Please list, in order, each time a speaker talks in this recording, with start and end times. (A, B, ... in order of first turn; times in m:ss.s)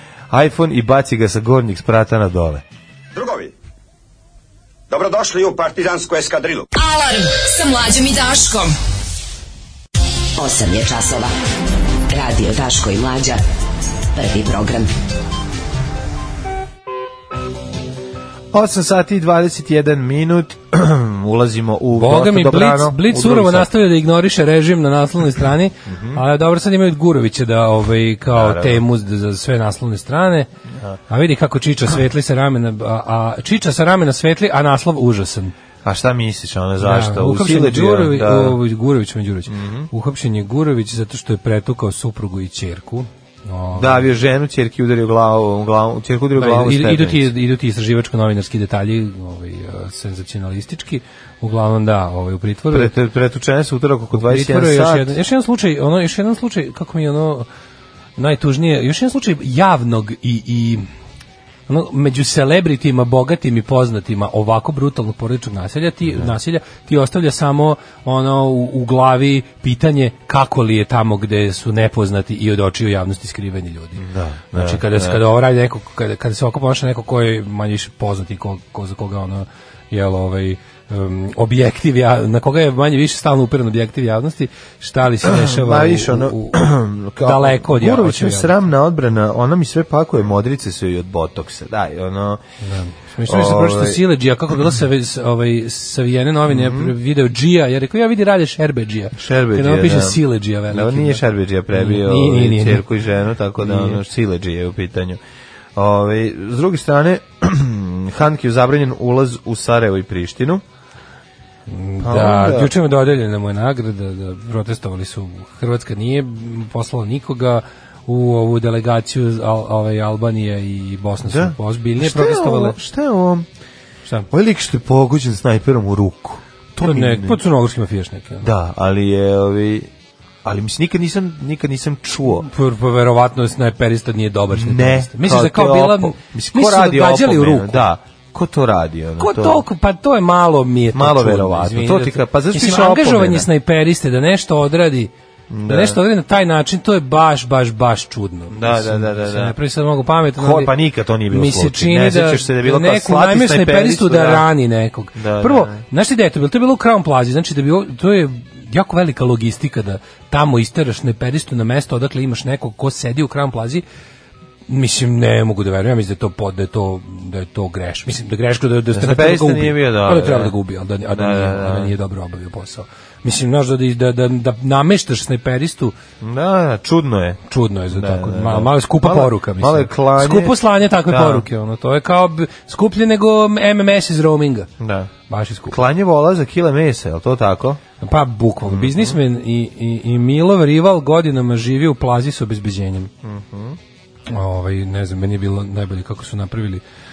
0:00.3-0:02.6 A
0:03.1-0:03.5 B
0:04.9-0:06.7 B
0:06.8-0:08.8 C
0:10.4-0:11.3 D
0:12.1-0:13.4 D
0:14.2-0:14.9 D
0:18.5-0:23.7 A
0:22.0-0:30.5 E
0:25.9-0:26.2 A
0:28.3-0:28.8 A
0:31.1-0:35.5 E
0:35.8-0:38.6 A
0:36.8-0:44.1 E
0:39.5-0:39.9 A
0:43.8-0:47.3 A
0:46.4-0:52.9 E
0:52.7-0:55.2 A
0:54.1-0:57.5 E
0:58.2-1:00.9 E
1:01.7-1:26.6 E
1:14.0-1:15.2 A
1:25.2-1:32.4 A
1:27.2-1:28.6 E
1:32.6-1:42.8 E
1:33.3-1:34.0 A
1:36.5-1:36.9 A
1:39.2-1:45.2 A
1:43.6-1:44.0 E
1:45.8-1:50.6 A
1:51.7-2:02.8 E
1:52.0-1:52.7 A
2:01.2-2:03.5 A
2:04.3-2:07.4 A
2:06.8-2:08.5 E
2:08.4-2:09.9 A
2:10.4-2:12.5 A
2:12.4-2:17.9 E
2:14.5-2:19.6 A
2:19.2-2:25.1 E
2:20.9-2:23.5 A
2:25.5-2:26.0 A
2:25.7-2:30.7 E
2:28.5-2:29.6 A
2:30.4-2:34.5 A
2:31.3-2:43.8 E
2:35.2-2:35.8 A
2:44.7-2:55.9 E
2:48.9-2:50.5 A
2:51.1-2:51.9 A
2:56.2-3:01.5 A
2:57.5-3:04.7 E
3:04.8-3:05.1 A
3:05.3-3:05.8 E
3:05.7-3:07.8 A
3:08.0-3:13.1 E
3:08.6-3:09.2 A
3:13.2-3:13.8 A
3:14.3-3:16.8 E